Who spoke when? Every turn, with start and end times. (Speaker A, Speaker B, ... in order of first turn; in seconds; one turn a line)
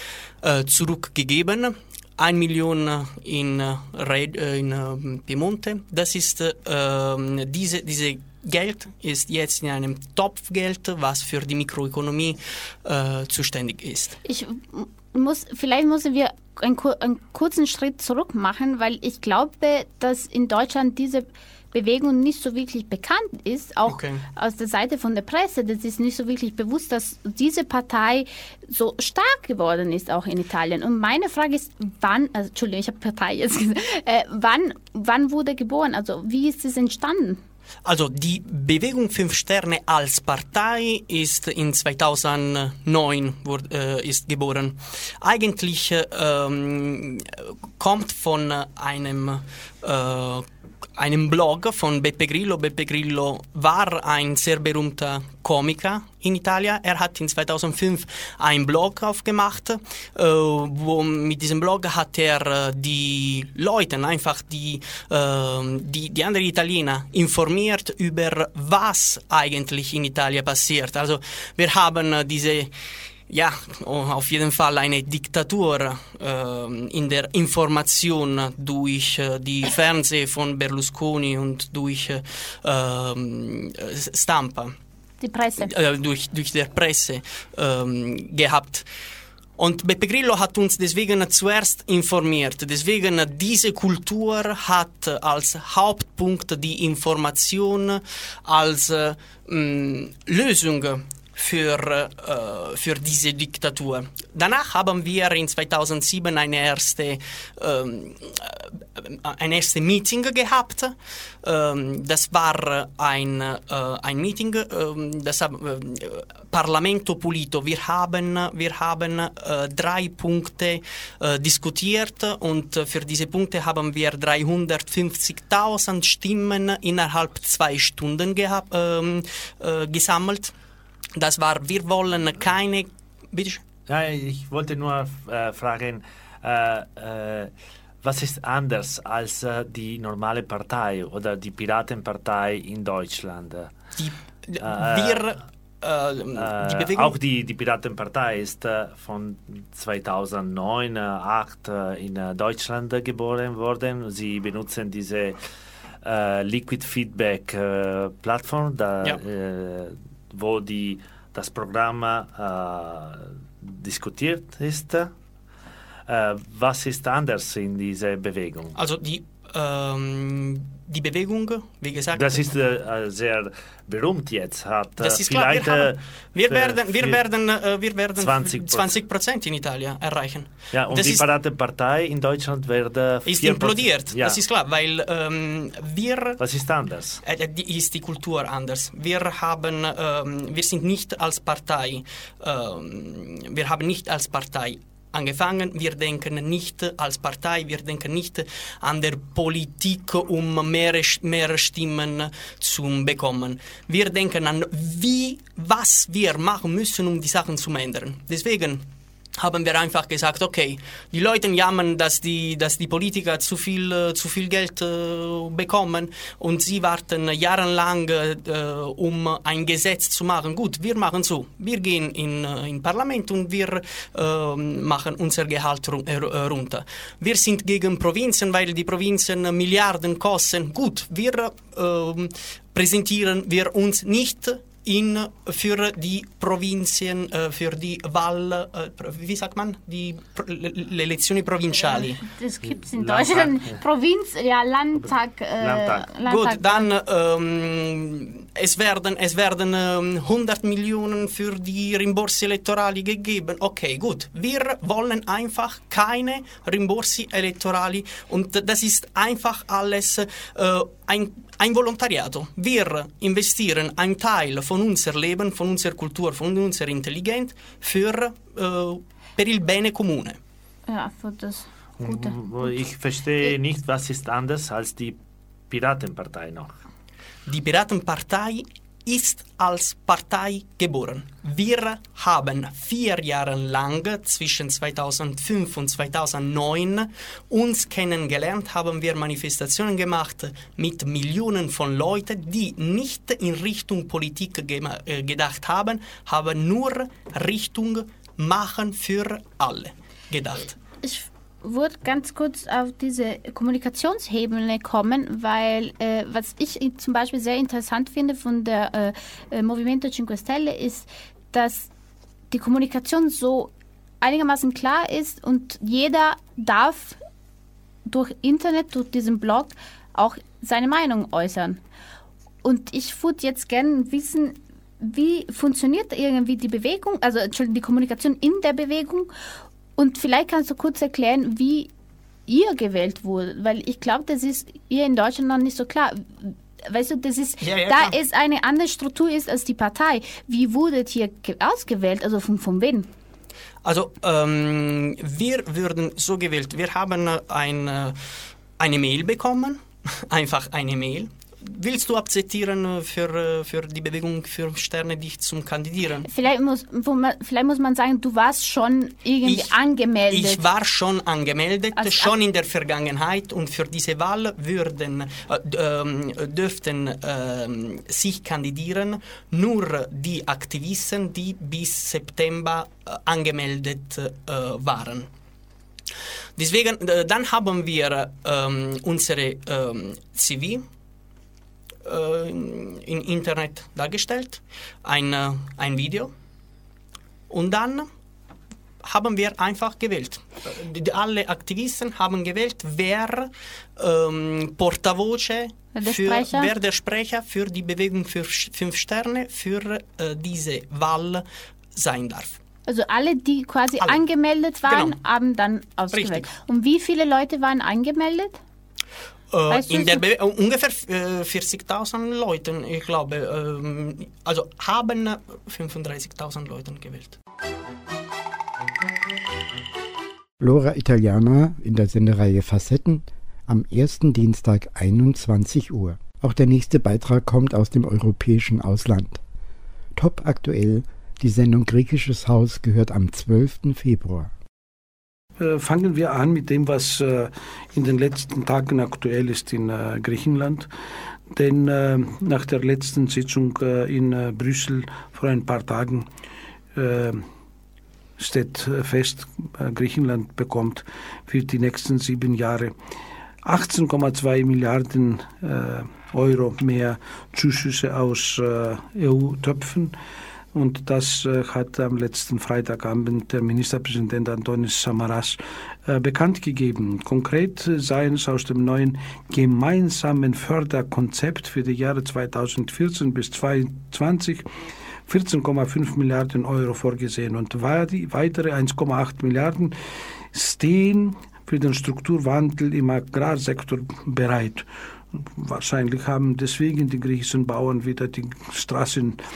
Speaker A: 0.4-14.2
Speaker B: 14.2-37.4
Speaker A: 23.9-24.2
Speaker A: 37.8-50.5
Speaker A: 51.0-72.7
Speaker A: 73.3-84.7
Speaker B: 85.2-85.7
Speaker A: 85.6-88.8
Speaker A: 89.6-130.5
Speaker A: 131.1-133.6
Speaker C: 133.9-143.7
Speaker A: 143.9-147.2
Speaker C: 144.6-145.3
Speaker C: 146.3-155.4
Speaker C: 156.0-165.1
Speaker C: 166.1-168.7
Speaker A: 168.7-172.4
Speaker C: 172.1-177.2
Speaker A: 175.0-181.2
Speaker C: 178.2-178.9
Speaker C: 180.7-184.4
Speaker A: 183.3-186.4
Speaker C: 186.4-187.2
Speaker A: 187.2-208.8
Speaker A: 209.3-242.2
Speaker B: 241.8-246.9
Speaker C: 242.7-243.8
Speaker C: 244.9-246.1
Speaker A: 246.2-270.4
Speaker B: 270.9-272.4
Speaker C: 272.0-275.2
Speaker C: 275.7-276.8
Speaker A: 277.5-300.8
Speaker B: 301.0-311.9
Speaker B: 312.5-317.2
Speaker B: 318.1-321.8
Speaker B: 322.6-329.3
Speaker B: 329.9-331.9
Speaker B: 332.5-343.1
Speaker A: 337.6-338.2
Speaker A: 343.8-348.2
Speaker A: 348.8-356.3
Speaker B: 356.2-360.6
Speaker A: 359.4-359.8
Speaker A: 360.3-375.3
Speaker B: 362.0-362.3
Speaker A: 376.6-380.8
Speaker A: 382.0-386.3
Speaker A: 387.5-388.1
Speaker A: 389.0-401.4
Speaker B: 395.9-396.7
Speaker A: 401.9-402.6
Speaker B: 402.9-408.6
Speaker A: 404.8-405.2
Speaker A: 406.1-406.5
Speaker A: 409.5-417.4
Speaker B: 409.7-410.2
Speaker D: 420.6-429.4
Speaker D: 430.1-434.5
Speaker E: 435.6-440.9
Speaker E: 441.5-446.3
Speaker E: 446.9-447.4
Speaker E: 448.4-452.9
Speaker E: 453.6-460.1
Speaker E: 460.7-474.6
Speaker E: 475.3-479.9
Speaker E: 480.5-489.4